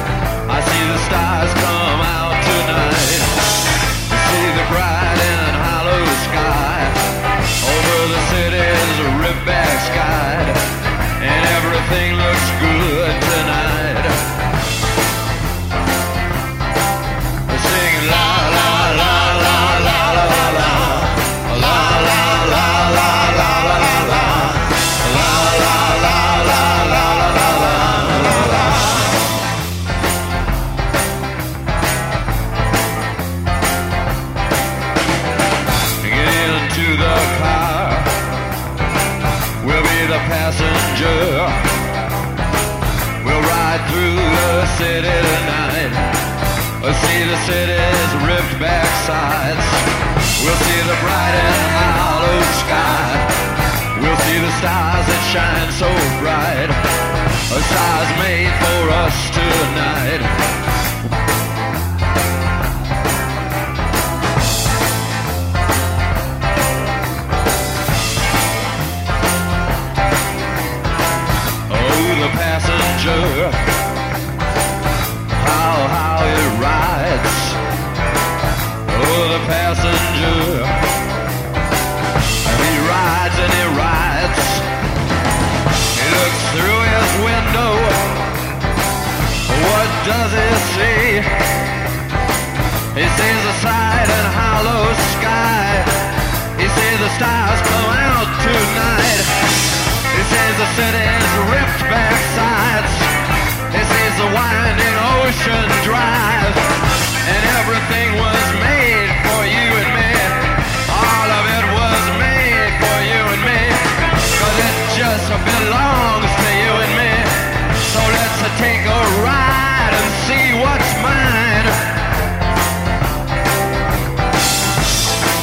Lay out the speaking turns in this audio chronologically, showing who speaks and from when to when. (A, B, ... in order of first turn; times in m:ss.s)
0:00.5-0:10.6 A
0:11.2-0:14.2 A
0:17.5-0:29.1 A
0:36.0-0:38.3 A
0:39.6-0:41.8 A
0:43.2-0:46.2 A
0:46.8-0:56.8 A
0:57.5-1:00.3 A
1:11.7-1:13.7 A
1:15.3-1:17.6 A
1:18.9-1:20.9 A
1:22.4-1:24.7 A
1:25.9-1:28.3 A
1:29.4-1:31.5 A
1:32.9-1:43.2 A
1:43.7-2:02.0 A